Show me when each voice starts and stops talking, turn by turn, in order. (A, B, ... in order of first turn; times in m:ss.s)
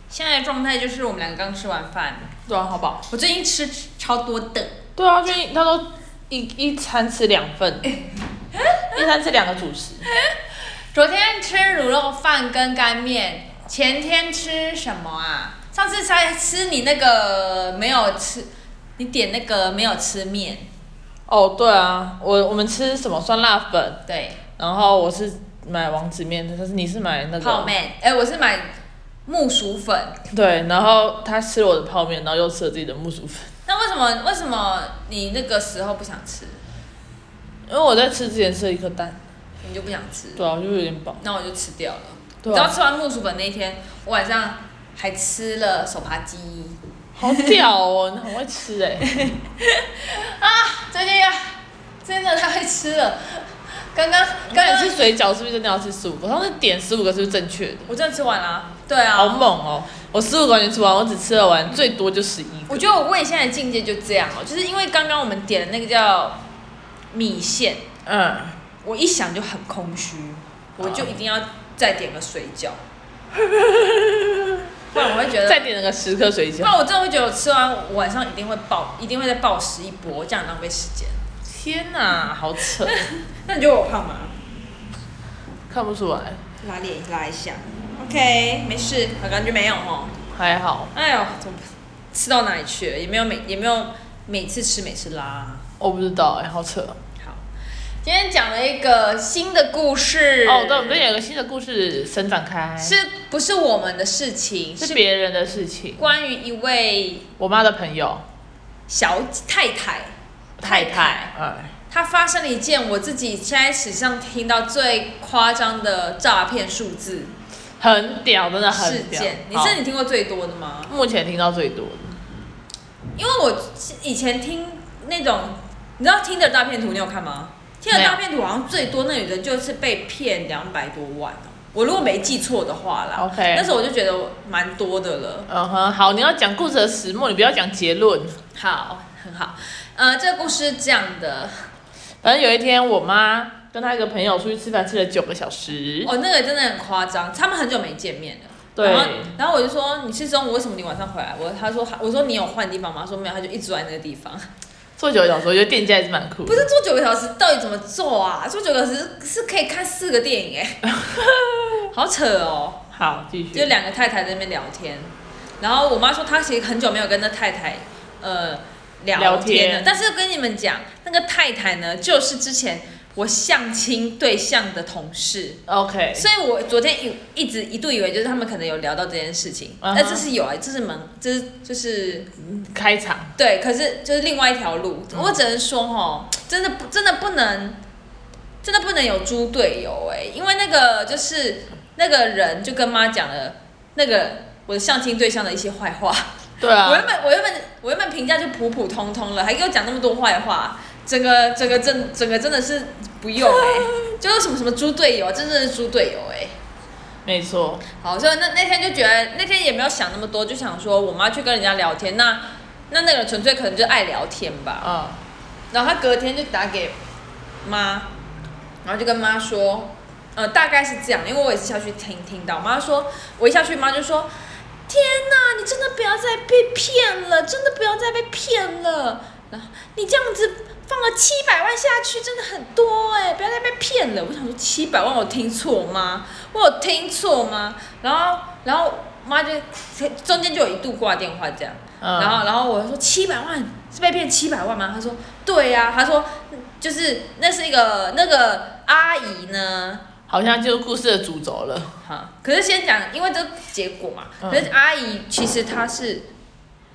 0:00.1-0:02.3 A
0:02.4-0:03.0 B
0:03.1-0:04.8 A
0:05.0-0:07.9 B
0:08.5-0:09.0 A
0:08.9-0:10.0 B
0:10.1-0:10.4 A
0:10.9-0:20.7 A
0:21.3-0:24.0 B
0:24.1-0:24.4 A
0:24.6-0:27.7 B
0:27.4-0:28.7 A
0:29.2-0:30.2 A
0:30.3-0:33.5 B
0:33.6-0:36.6 A
0:37.7-0:39.2 B
0:39.6-0:40.4 A
0:40.4-0:41.2 B
0:41.2-0:47.5 A
0:42.4-0:42.7 B
0:47.2-0:49.1 B
0:49.0-0:55.0 A
0:54.5-0:57.9 B
0:57.9-0:59.5 A
0:59.1-1:02.8 B
1:02.7-1:06.4 A
1:07.1-1:07.9 A
1:08.0-1:08.6 B
1:08.8-1:12.8 A
1:10.8-1:11.2 B
1:13.3-1:14.6 B
1:14.9-1:15.7 A
1:15.3-1:16.8 B
1:16.6-1:21.2 A
1:21.4-1:23.1 B
1:22.8-1:24.4 A
1:25.7-1:26.4 B
1:26.6-1:30.2 A
1:30.3-1:30.9 B
1:30.9-1:35.6 A
1:35.8-1:37.0 B
1:37.2-1:37.4 A
1:38.0-1:41.0 A
1:40.4-1:43.0 B
1:42.8-1:45.0 A
1:44.8-1:46.0 B
1:46.0-1:47.3 A
1:47.4-1:48.2 B
1:48.9-1:51.3 A
1:50.6-1:51.7 B
1:51.9-1:57.3 A
1:57.8-1:59.8 B
1:58.7-2:00.9 A
2:00.9-2:02.2 B
2:03.2-2:15.5 A
2:07.9-2:08.2 B
2:13.2-2:13.7 B
2:15.5-2:18.4 B
2:18.5-2:21.7 A
2:22.2-2:26.1 B
2:26.0-2:34.5 A
2:28.8-2:29.3 B
2:35.0-2:36.7 B
2:36.4-2:40.9 A
2:40.9-2:41.8 B
2:41.9-2:42.8 A
2:42.9-2:43.7 B
2:43.5-2:55.6 A
2:49.1-2:49.9 B
2:55.7-2:56.3 B
2:56.1-3:02.3 A
2:59.8-3:00.2 B
3:02.4-3:03.3 B
3:03.4-3:07.8 A
3:08.6-3:26.6 A
3:16.6-3:17.1 B
3:23.5-3:23.8 B
3:27.2-3:27.8 B
3:28.0-3:34.9 A
3:34.8-3:35.2 B
3:35.7-3:37.0 A
3:37.6-3:38.1 A
3:38.8-3:44.3 A
3:44.9-4:10.0 A
4:02.0-4:02.4 B
4:10.3-4:11.9 B
4:12.0-4:16.3 A
4:14.4-4:14.7 B